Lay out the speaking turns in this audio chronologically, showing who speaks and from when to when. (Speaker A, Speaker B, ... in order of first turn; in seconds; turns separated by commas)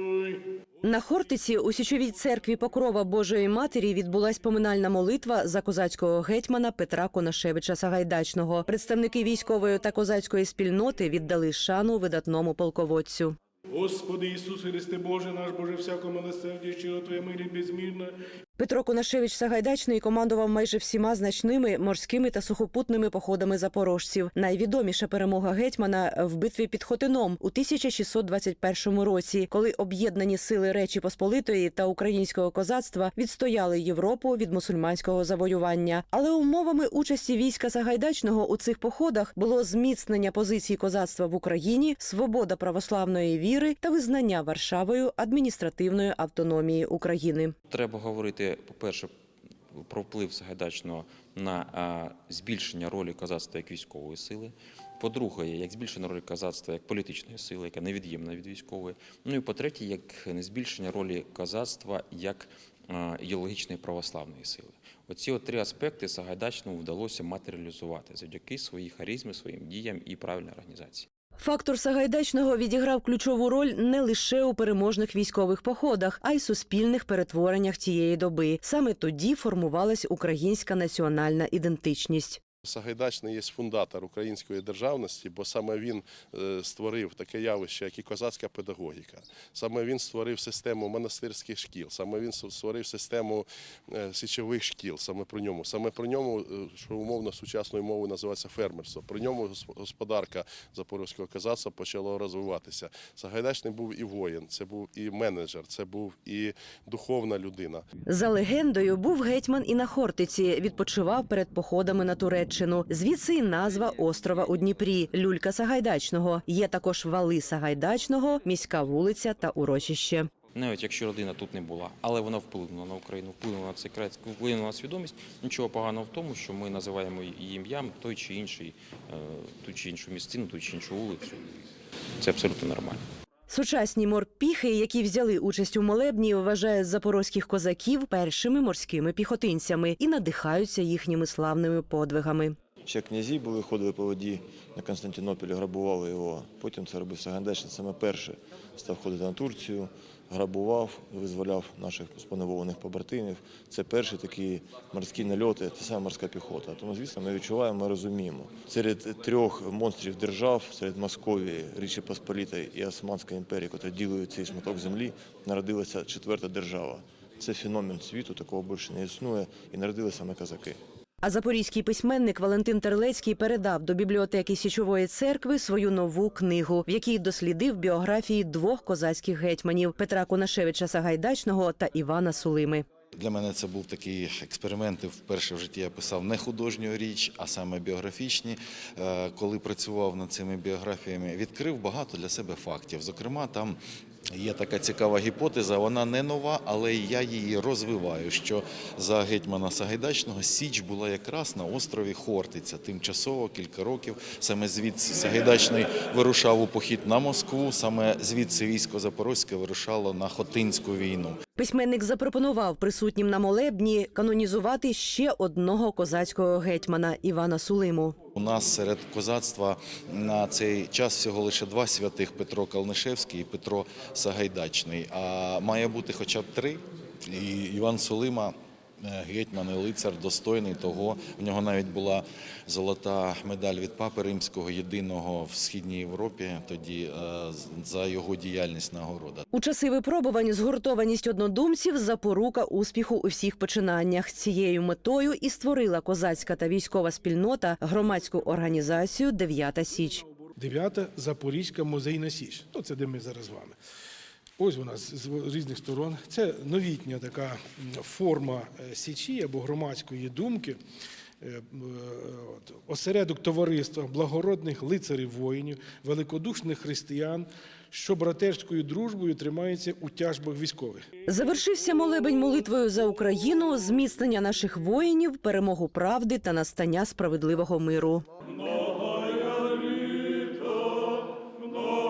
Speaker A: 0.8-13.4, Speaker B: 13.7-18.1, Speaker A: 18.6-47.5, Speaker C: 47.7-49.1, Speaker C: 49.8-71.1, Speaker A: 71.4-82.4, Speaker D: 82.7-107.8, Speaker A: 108.1-120.3, Speaker C: 120.5-131.6, Speaker C: 132.2-133.0, Speaker A: 133.5-142.6, Speaker E: 142.9-170.8, Speaker A: 171.2-182.8, Speaker F: 183.2-193.8, Speaker F: 194.3-211.4, Speaker A: 211.6-218.2, Speaker F: 218.3-239.4, Speaker A: 239.5-250.2, Speaker B: 250.6-253.8, Speaker B: 254.6-260.8, Speaker B: 261.4-271.1, Speaker A: 271.3-278.2